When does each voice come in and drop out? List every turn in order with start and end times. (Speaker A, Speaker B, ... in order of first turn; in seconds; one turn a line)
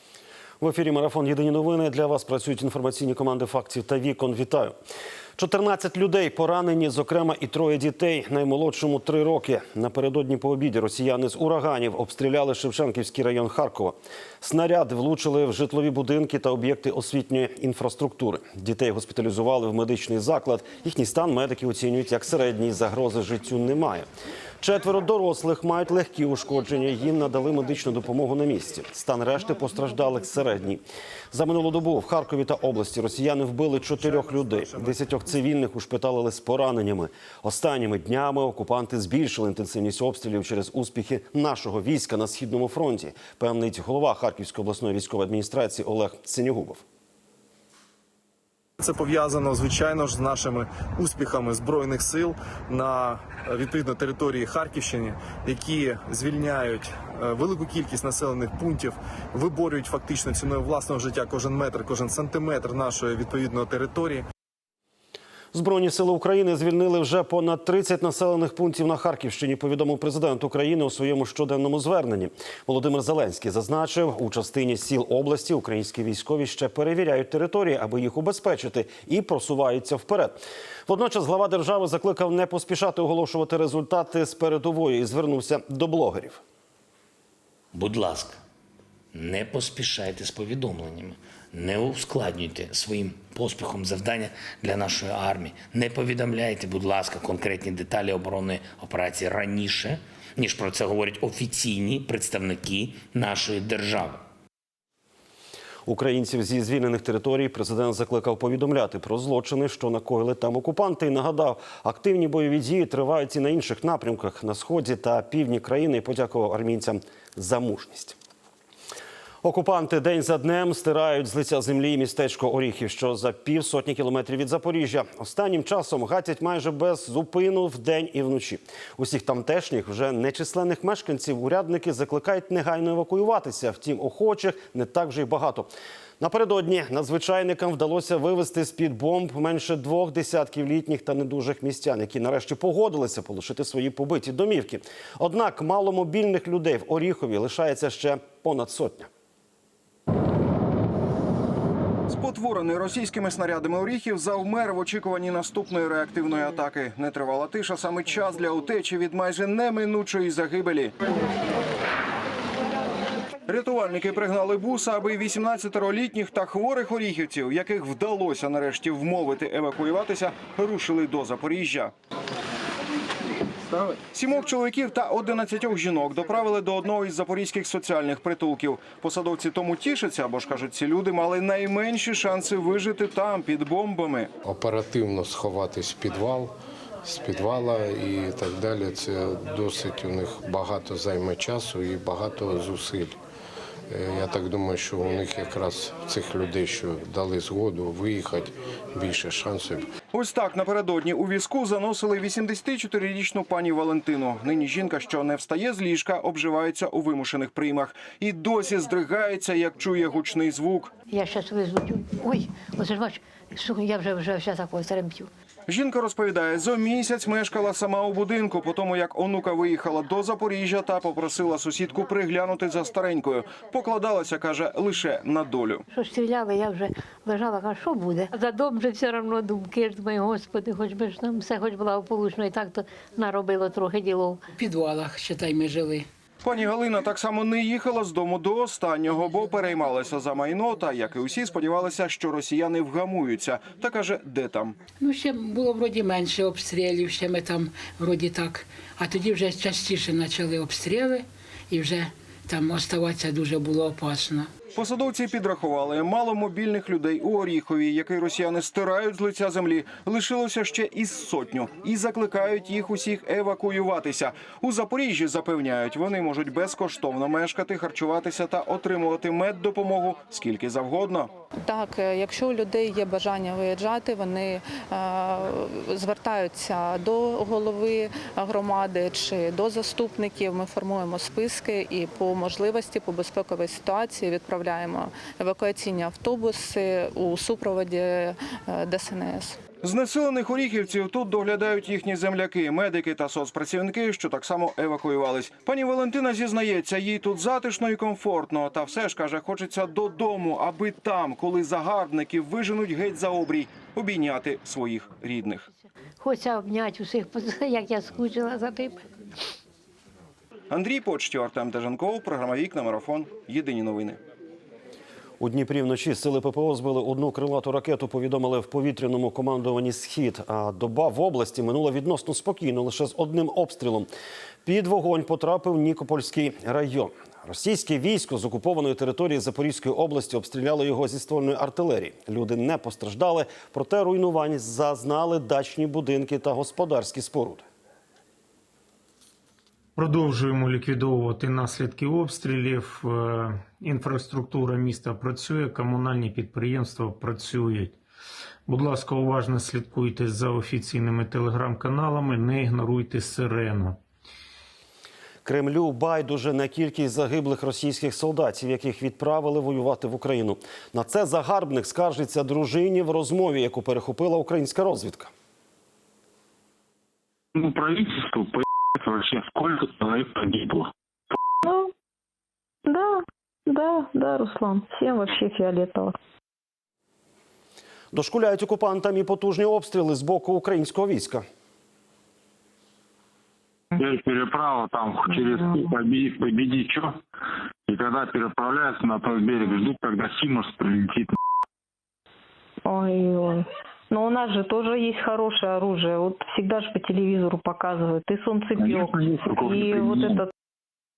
Speaker A: 0.6-4.7
Speaker A: 5.4-24.1
Speaker A: 24.6-46.8
Speaker B: 34.0-34.9
Speaker C: 48.8-64.2
Speaker A: 65.5-86.4
Speaker D: 87.7-88.4
Speaker D: 89.1-104.2
Speaker A: 105.8-118.1
Speaker A: 119.4-149.1
Speaker B: 152.1-160.9
Speaker B: 163.5-171.9
Speaker B: 174.1-184.3
Speaker E: 184.4-193.2
Speaker E: 193.9-199.8
Speaker B: 200.1-210.9
Speaker F: 211.1-215.3
Speaker B: 215.7-225.8
Speaker F: 225.9-234.4
Speaker G: 234.6-236.1
Speaker B: 236.4-244.8
Speaker G: 245.0-254.5
Speaker B: 254.7-271.3
Speaker H: 271.6-289.6
Speaker B: 289.8-305.6
Speaker F: 306.2-309.0
Speaker B: 310.7-314.2
Speaker A: 315.4-324.1
Speaker A: 324.6-337.6
Speaker I: 340.0-347.9
Speaker I: 348.7-354.0
Speaker A: 355.4-365.3
Speaker J: 367.5-370.9
Speaker K: 373.7-376.1
Speaker A: 378.1-381.4
Speaker J: 384.0-387.1
Speaker J: 387.9-391.3
Speaker K: 392.9-399.0
Speaker J: 398.8-400.4
Speaker K: 399.6-400.4